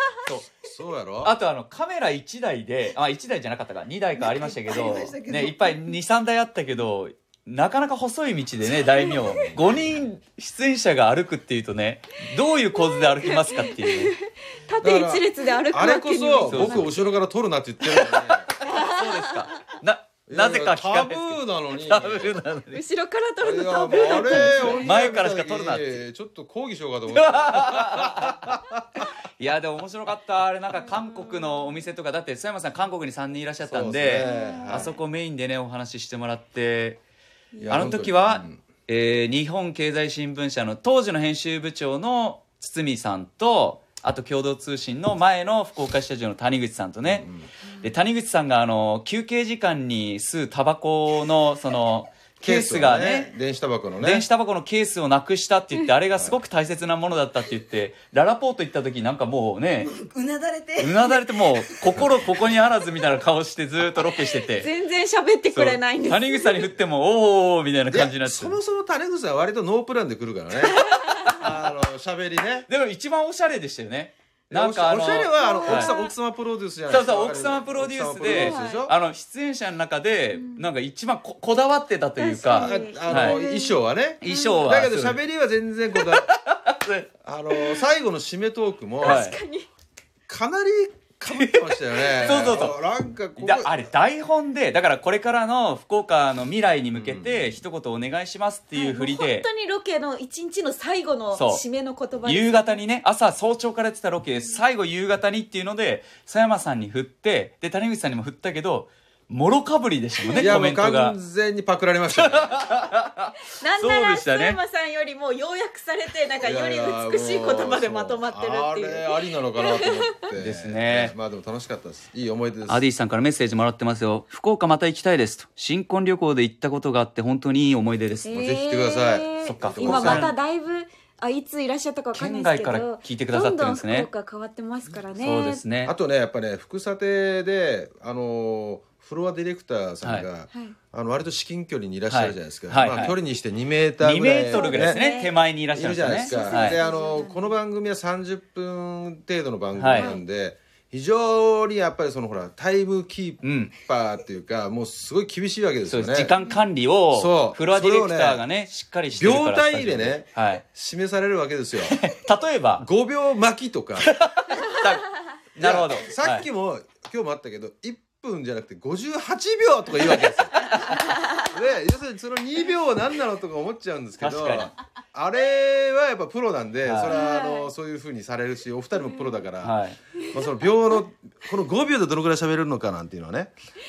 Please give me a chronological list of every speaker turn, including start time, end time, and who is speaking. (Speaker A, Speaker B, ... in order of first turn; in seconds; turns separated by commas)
Speaker A: 0.6-1.3, Speaker B: 1.2-14.1, Speaker C: 4.2-5.9, Speaker A: 9.3-9.7, Speaker D: 12.8-16.9, Speaker A: 14.8-18.7, Speaker B: 16.4-16.9, Speaker B: 17.9-22.8, Speaker D: 18.6-19.4, Speaker A: 20.3-22.4, Speaker D: 22.7-24.9, Speaker A: 23.4-29.0, Speaker B: 23.9-26.0, Speaker B: 27.1-28.6, Speaker B: 29.4-37.0, Speaker A: 33.6-34.9, Speaker D: 34.2-35.0, Speaker D: 37.5-38.0, Speaker A: 37.6-38.6, Speaker B: 37.7-47.3, Speaker A: 47.1-47.5, Speaker B: 47.8-53.3, Speaker A: 52.4-54.3, Speaker B: 54.0-59.9, Speaker C: 59.8-62.1, Speaker B: 60.8-64.7, Speaker D: 64.5-66.7, Speaker B: 65.5-68.6, Speaker A: 67.9-72.7, Speaker D: 70.6-71.3, Speaker B: 71.2-71.5, Speaker B: 72.7-75.9, Speaker A: 74.5-78.9, Speaker D: 75.3-76.1, Speaker B: 76.9-83.4, Speaker D: 78.2-78.9, Speaker D: 80.3-80.7, Speaker D: 82.2-84.7, Speaker A: 82.5-86.3, Speaker B: 84.2-85.2, Speaker B: 86.0-87.8, Speaker A: 87.2-89.3, Speaker D: 89.0-89.7, Speaker B: 89.0-89.3, Speaker A: 90.3-93.7, Speaker B: 91.3-92.8, Speaker B: 93.4-99.5, Speaker A: 96.9-97.6, Speaker D: 98.7-102.8, Speaker B: 101.3-101.6, Speaker B: 102.2-111.2, Speaker D: 104.3-104.6, Speaker D: 110.2-110.5, Speaker A: 110.3-112.6, Speaker B: 112.2-114.6, Speaker D: 113.5-120.2, Speaker A: 116.4-122.8, Speaker B: 120.4-121.1, Speaker B: 122.7-128.3, Speaker D: 128.2-135.6, Speaker A: 128.3-130.3, Speaker B: 129.4-130.3, Speaker B: 132.1-134.1, Speaker B: 135.2-135.9, Speaker A: 135.8-145.0, Speaker B: 140.0-140.3, Speaker B: 142.1-143.2, Speaker B: 144.0-146.8, Speaker D: 144.5-145.3, Speaker A: 145.7-156.3, Speaker D: 146.1-147.6, Speaker B: 149.7-150.1, Speaker D: 149.9-150.2, Speaker B: 153.4-153.7, Speaker B: 155.8-160.6, Speaker A: 157.1-158.4, Speaker A: 159.1-162.0, Speaker B: 161.8-162.8, Speaker A: 162.8-164.1, Speaker B: 164.0-166.4, Speaker A: 165.6-179.8, Speaker B: 174.2-174.7, Speaker B: 176.8-177.2, Speaker D: 177.1-177.7, Speaker B: 179.6-180.0, Speaker A: 180.3-183.5